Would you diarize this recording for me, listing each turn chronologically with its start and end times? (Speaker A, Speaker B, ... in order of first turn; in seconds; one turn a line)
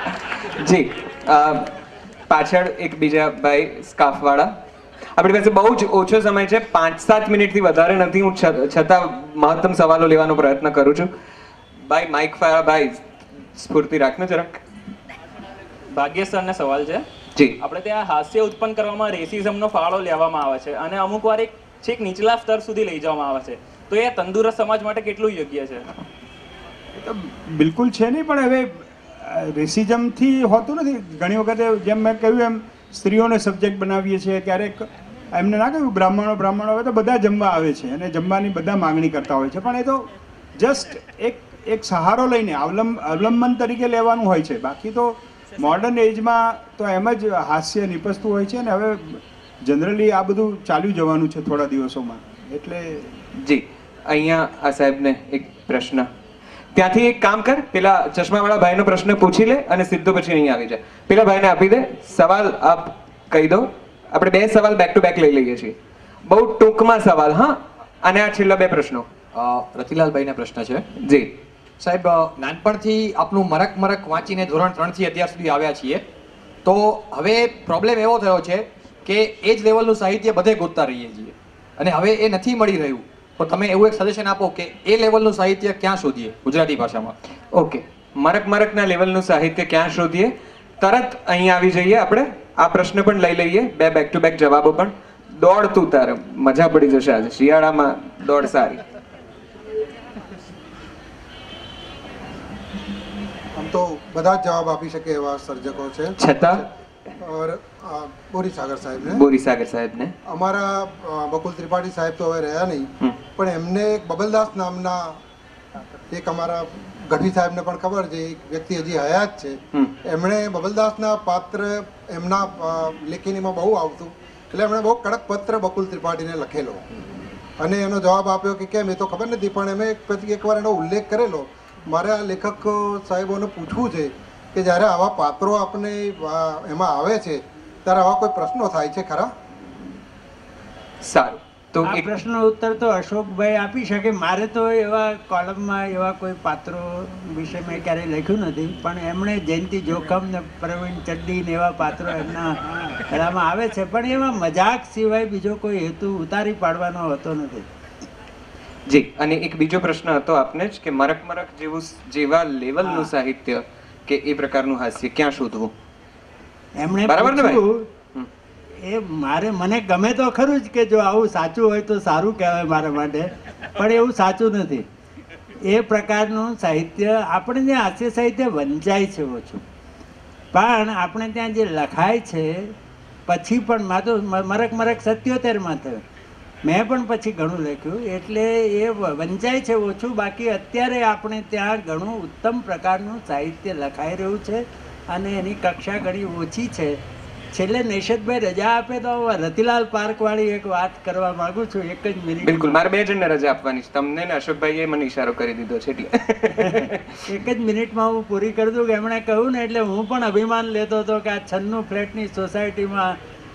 Speaker A: 0.6-1.7
Speaker A: 2.3-4.5
Speaker A: 5.2-11.1
Speaker A: 11.9-13.0
Speaker A: 13.6-14.6
Speaker B: 15.9-17.0
Speaker B: 17.6-25.9
Speaker C: 26.9-40.1
Speaker C: 40.6-53.1
Speaker A: 53.4-56.1
Speaker A: 56.7-65.7
Speaker A: 66.3-69.1
Speaker D: 69.3-70.8
Speaker A: 71.0-71.3
Speaker D: 71.8-76.0
Speaker D: 76.6-87.1
Speaker A: 87.5-98.8
Speaker E: 103.5-106.7
Speaker A: 106.2-106.6
Speaker E: 107.2-109.2
Speaker A: 109.1-110.1
Speaker E: 110.2-115.2
Speaker E: 116.1-126.8
Speaker E: 127.6-139.3
Speaker A: 141.0-142.1
Speaker F: 141.8-157.7
Speaker A: 158.9-165.7
Speaker F: 166.8-167.9
Speaker A: 167.1-167.6
Speaker F: 168.8-174.8
Speaker F: 175.7-179.6
Speaker F: 180.5-182.7
Speaker F: 183.3-186.0
Speaker F: 186.6-196.9
Speaker F: 197.5-202.8
Speaker A: 202.4-207.0
Speaker F: 206.6-213.2